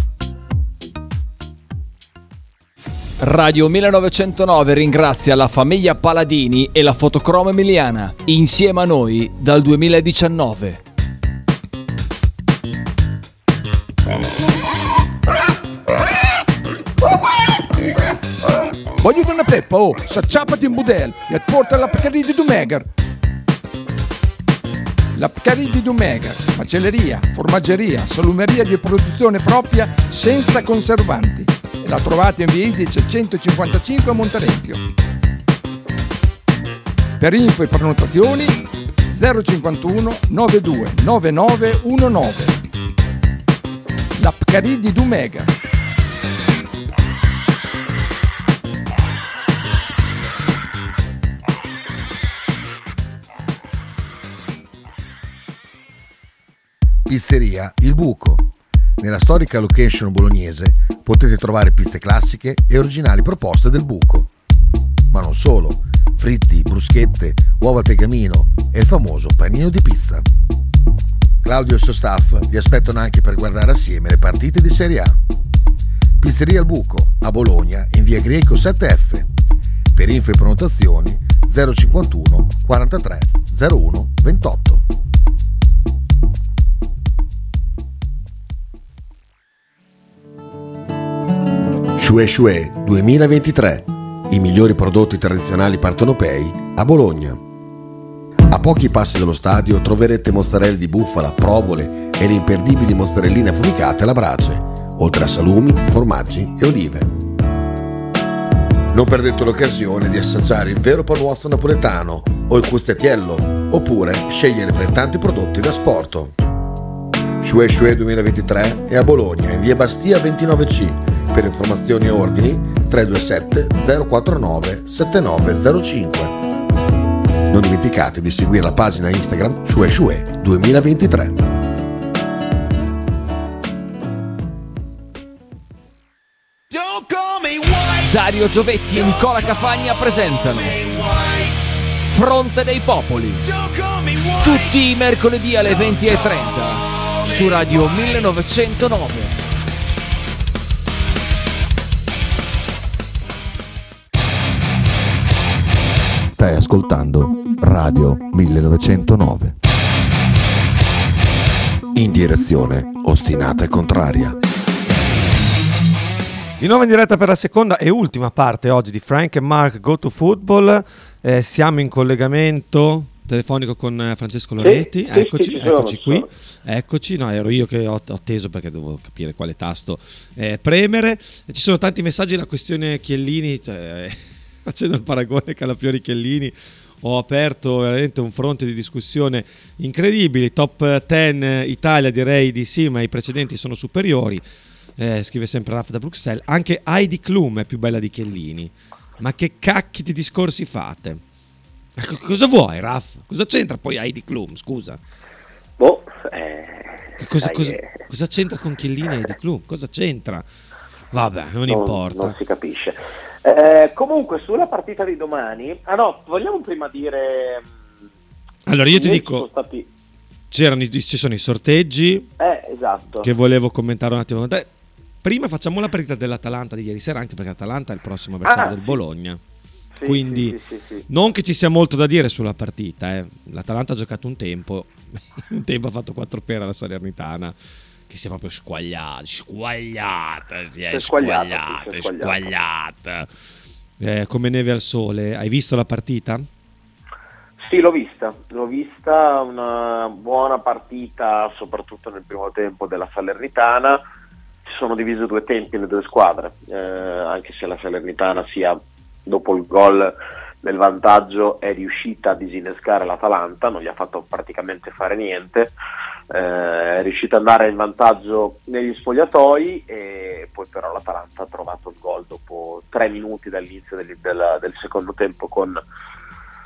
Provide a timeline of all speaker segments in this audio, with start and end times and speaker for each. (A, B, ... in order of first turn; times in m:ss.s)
0:03.2-0:10.8 A
0:19.0-0:22.9 B
0:25.1-0:34.8 B
0:37.2-0:42.6 B
0:44.2-0:45.5 B
0:57.0-0:58.4 C
0:59.0-1:04.3 C
1:05.1-1:10.2 C
1:11.4-1:15.2 C
1:16.2-1:19.3 C
1:19.9-1:24.8 C
1:32.0-1:37.4 C
1:38.5-1:47.1 C
1:48.9-1:56.4 C
1:57.4-2:06.4 C
2:07.5-2:11.4 C
2:18.0-2:21.2 A
2:22.0-2:23.5 A
2:24.4-2:29.4 A
2:36.3-2:39.5 D
2:41.9-2:44.4 D
2:46.6-3:14.4 E
2:54.6-2:56.3 F
3:15.0-3:21.2 E
3:22.0-3:25.0 E
3:25.8-3:28.0 F
3:27.2-3:30.4 E
3:31.1-3:32.3 E
3:31.7-3:37.7 F
3:38.6-3:39.4 E
3:38.9-3:39.9 F
3:40.5-3:42.3 E
3:42.4-3:43.3 F
3:43.2-3:44.7 E
3:45.2-3:49.4 E
3:48.4-3:49.0 F
3:50.0-3:51.0 F
3:50.0-3:50.6 E
3:51.1-3:57.6 E
3:58.1-4:03.3 E
4:00.9-4:02.5 F
4:04.0-4:06.4 E
4:07.6-4:14.0 F
4:14.6-4:25.7 F
4:26.3-4:35.8 F